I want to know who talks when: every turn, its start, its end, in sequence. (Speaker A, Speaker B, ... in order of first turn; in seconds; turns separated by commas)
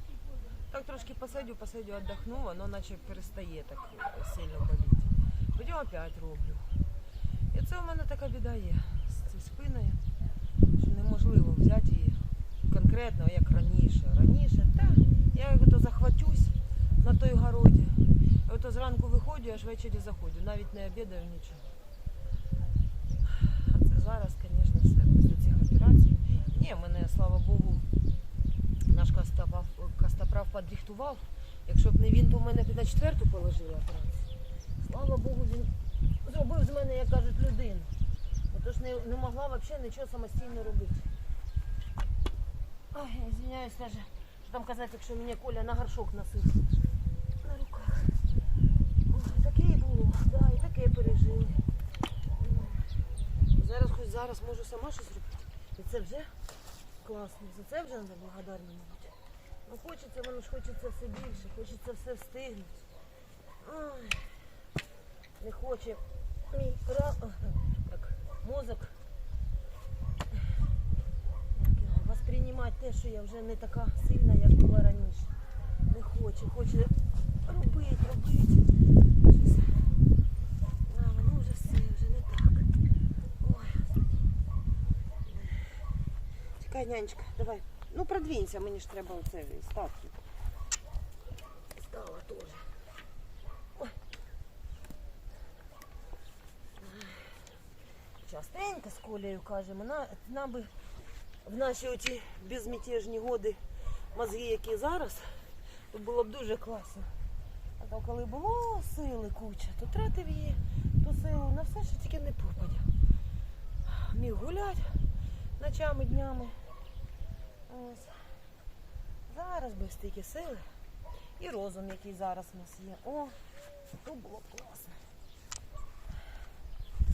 Speaker A: 0.6-6.7, Speaker A: 7.5-10.0, Speaker A: 10.8-21.7, Speaker A: 23.3-27.9, Speaker A: 28.9-34.3, Speaker A: 34.8-35.7, Speaker A: 36.2-37.9, Speaker A: 38.5-41.1, Speaker A: 42.9-46.6, Speaker A: 47.4-48.2, Speaker A: 49.1-51.6, Speaker A: 52.4-52.9, Speaker A: 53.5-56.3, Speaker A: 57.0-59.1, Speaker A: 59.6-62.8, Speaker A: 63.6-64.4, Speaker A: 65.4-69.0, Speaker A: 71.5-75.3, Speaker A: 75.9-76.9, Speaker A: 77.4-78.6, Speaker A: 79.2-79.9, Speaker A: 80.8-82.7, Speaker A: 83.4-84.1, Speaker A: 85.2-85.6, Speaker A: 86.6-90.2, Speaker A: 91.7-92.7, Speaker A: 96.8-97.4, Speaker A: 98.2-100.7, Speaker A: 101.4-103.6, Speaker A: 104.1-107.1, Speaker A: 107.8-112.9, Speaker A: 113.8-115.0, Speaker A: 115.6-116.6, Speaker A: 117.7-118.2, Speaker A: 119.3-120.7, Speaker A: 121.4-123.3, Speaker A: 123.9-125.0